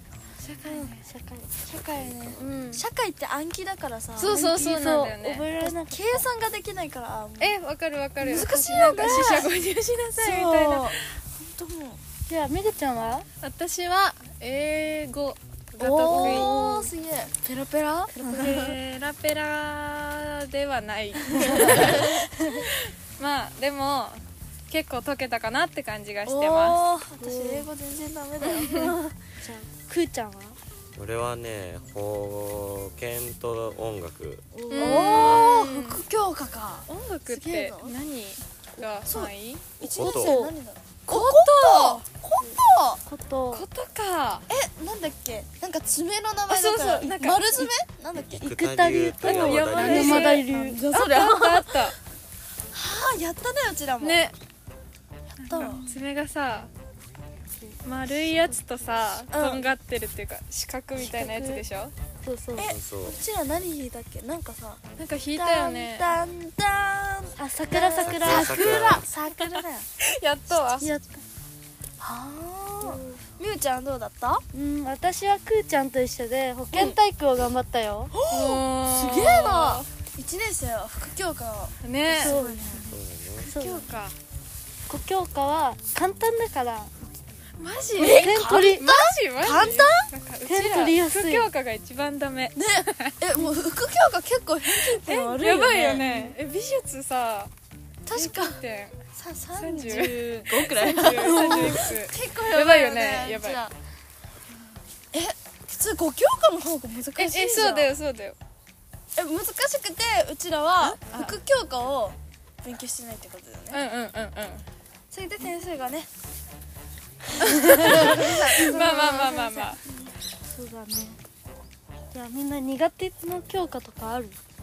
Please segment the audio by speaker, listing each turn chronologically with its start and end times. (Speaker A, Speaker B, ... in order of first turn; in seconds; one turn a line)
Speaker A: 0.4-1.0
Speaker B: 0.7-0.9
Speaker C: 1.0-1.5
Speaker B: 1.6-4.4
Speaker D: 1.9-2.4
Speaker A: 2.4-2.9
Speaker A: 4.2-5.5
Speaker C: 4.3-6.3
Speaker B: 5.6-7.6
Speaker A: 7.4-11.0
Speaker B: 8.2-9.5
Speaker B: 10.2-12.0
Speaker C: 12.3-13.3
Speaker A: 13.4-16.5
Speaker B: 15.8-18.8
Speaker C: 16.1-16.9
Speaker C: 18.1-18.7
Speaker A: 18.3-26.8
Speaker B: 21.4-22.1
Speaker B: 26.3-29.1
Speaker C: 27.2-27.7
Speaker A: 28.5-28.9
Speaker C: 29.4-30.6
Speaker D: 30.9-34.5
Speaker C: 34.5-35.0
Speaker A: 34.7-36.0
Speaker B: 34.7-38.0
Speaker D: 35.1-35.5
Speaker A: 36.9-39.7
Speaker B: 39.1-43.0
Speaker C: 39.8-40.5
Speaker D: 39.8-40.3
Speaker A: 41.1-42.1
Speaker C: 42.4-43.6
Speaker A: 43.5-44.5
Speaker B: 44.5-48.4
Speaker A: 46.5-47.7
Speaker D: 48.3-50.1
Speaker C: 48.4-50.8
Speaker A: 49.2-52.0
Speaker B: 49.4-52.0
Speaker B: 52.7-54.3
Speaker A: 54.0-54.4
Speaker A: 55.4-56.7
Speaker B: 55.4-55.9
Speaker A: 57.8-61.9
Speaker B: 59.3-59.7
Speaker C: 61.0-61.6
Speaker C: 62.2-62.7
Speaker B: 62.6-64.8
Speaker D: 62.6-63.2
Speaker A: 65.0-66.2
Speaker B: 65.3-69.9
Speaker C: 67.4-68.7
Speaker D: 68.0-69.1
Speaker A: 70.0-70.9
Speaker C: 70.8-71.2
Speaker B: 72.0-74.4
Speaker C: 72.8-73.2
Speaker C: 74.5-78.2
Speaker B: 78.1-83.0
Speaker A: 78.3-79.9
Speaker A: 81.8-82.4
Speaker C: 82.1-82.9
Speaker D: 82.9-83.5
Speaker C: 83.4-83.9
Speaker A: 83.4-84.2
Speaker C: 84.9-87.2
Speaker A: 87.6-93.1
Speaker B: 88.0-90.1
Speaker C: 88.0-88.9
Speaker C: 90.5-91.5
Speaker B: 92.5-96.1
Speaker A: 94.8-97.5
Speaker C: 95.9-96.4
Speaker B: 98.1-98.6
Speaker A: 98.1-99.0
Speaker B: 99.1-103.7
Speaker A: 99.6-103.7
Speaker C: 101.1-101.9
Speaker B: 105.1-107.9
Speaker A: 107.2-108.4
Speaker B: 109.2-113.8
Speaker A: 111.0-111.4
Speaker A: 113.7-114.7
Speaker B: 115.1-116.1
Speaker A: 117.4-119.8
Speaker B: 117.6-119.5
Speaker C: 117.7-121.2
Speaker C: 122.1-124.4